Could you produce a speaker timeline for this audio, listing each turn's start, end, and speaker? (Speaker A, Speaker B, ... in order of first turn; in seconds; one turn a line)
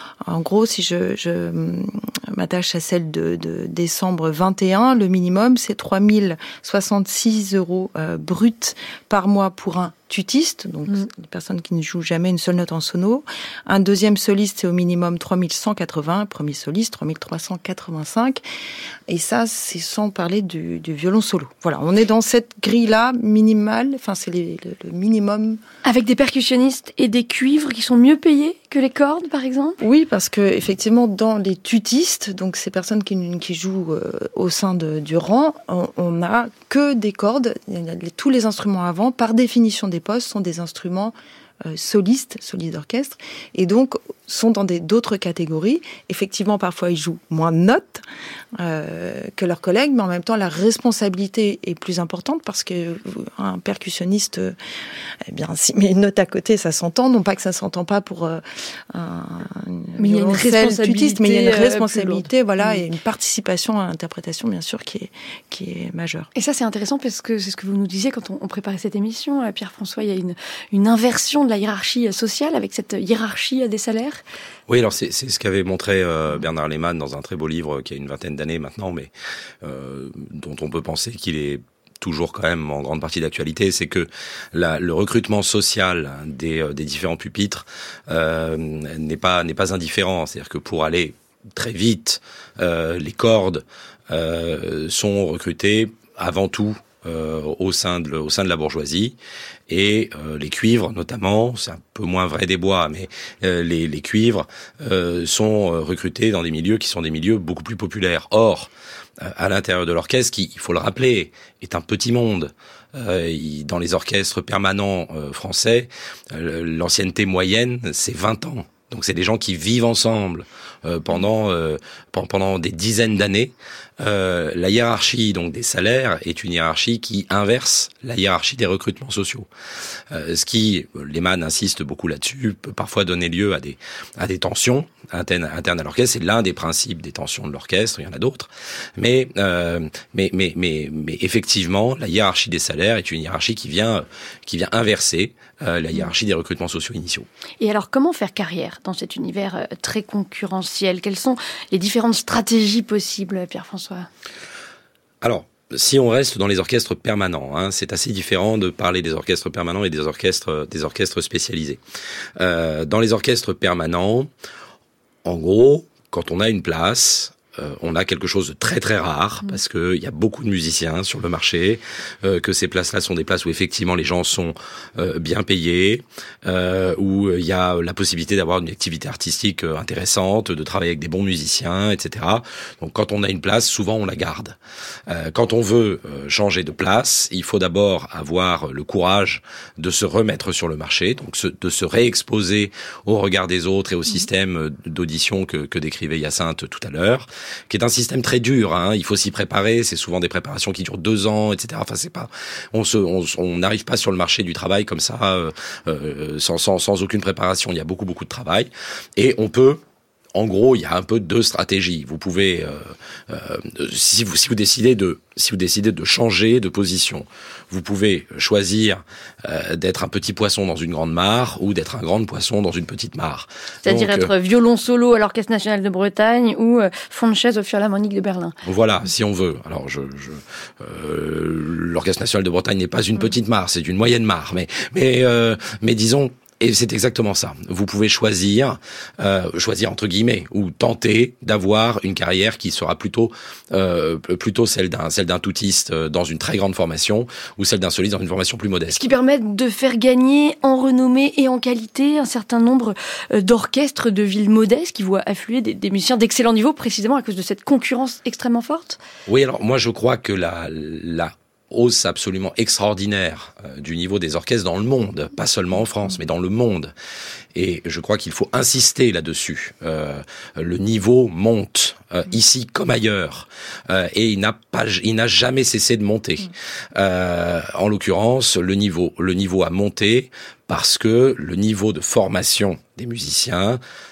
Speaker A: 0.2-18.4
Speaker A: 19.1-25.6
Speaker B: 25.8-29.8
Speaker A: 29.8-41.1
Speaker A: 41.6-48.0
Speaker A: 48.6-54.5
Speaker A: 55.3-66.3
Speaker B: 60.0-62.8
Speaker B: 66.3-74.2
Speaker C: 74.7-79.1
Speaker C: 79.6-99.1
Speaker C: 99.7-108.7
Speaker C: 109.2-129.5
Speaker C: 130.1-147.3
Speaker B: 147.6-154.1
Speaker C: 155.2-161.8
Speaker C: 162.4-164.3
Speaker C: 165.2-184.6
Speaker C: 185.1-209.8
Speaker C: 210.3-224.3
Speaker B: 223.8-228.6
Speaker C: 228.6-249.1
Speaker B: 248.9-259.0
Speaker C: 259.3-266.9
Speaker C: 267.5-283.8